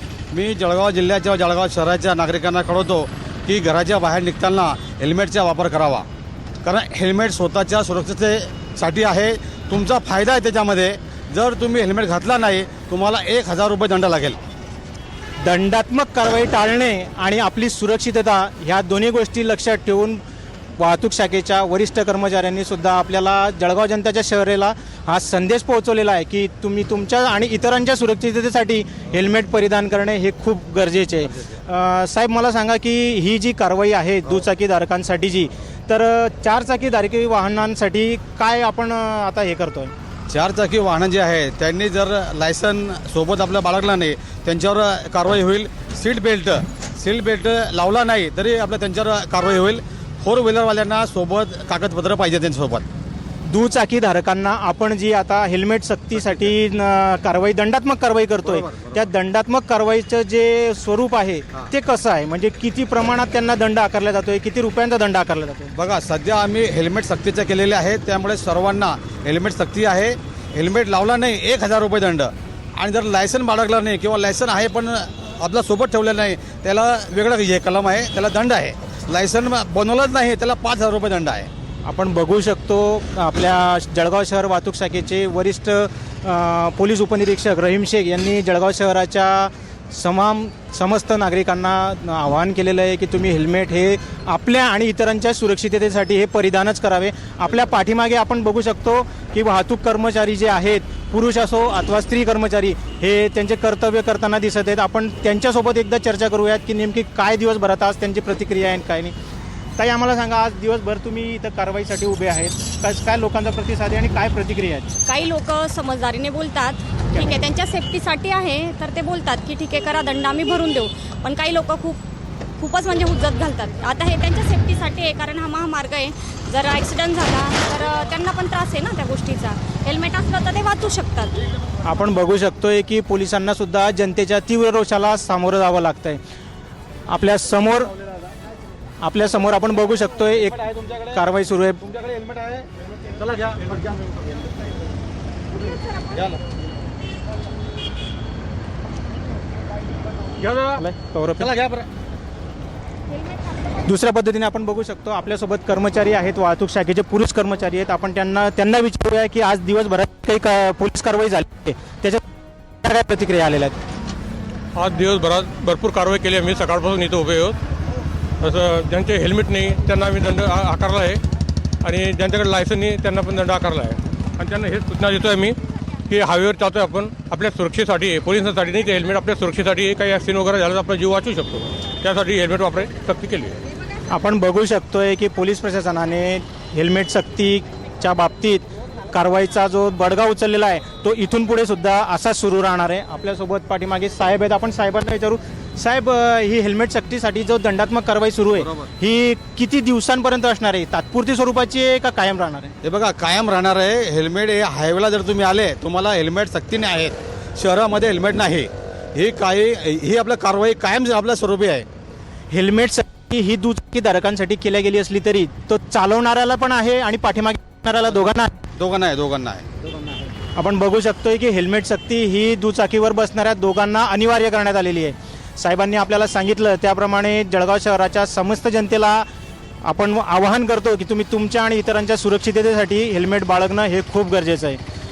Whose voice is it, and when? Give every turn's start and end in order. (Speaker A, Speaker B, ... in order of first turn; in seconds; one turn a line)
Speaker A: 0.3-6.0
Speaker A: 6.6-14.4
Speaker B: 15.4-20.2
Speaker B: 20.8-39.9
Speaker A: 40.3-52.9
Speaker B: 53.5-65.7
Speaker A: 58.4-59.1
Speaker A: 65.7-81.5
Speaker B: 81.8-109.1
Speaker B: 109.8-115.0
Speaker C: 115.0-122.0
Speaker C: 122.6-131.3
Speaker B: 131.8-136.2
Speaker B: 137.1-137.9
Speaker B: 139.0-142.0
Speaker D: 142.1-143.9
Speaker D: 150.4-150.8
Speaker B: 150.8-151.5
Speaker D: 151.4-151.8
Speaker B: 153.8-162.2
Speaker B: 162.8-163.8
Speaker D: 164.8-167.6
Speaker D: 168.4-171.2
Speaker D: 171.8-175.6
Speaker D: 176.1-183.6
Speaker B: 184.1-202.7
Speaker A: 198.6-198.9
Speaker A: 202.8-211.8
Speaker B: 212.5-218.6
Speaker A: 218.8-219.7
Speaker B: 220.5-229.2
Speaker B: 229.8-234.8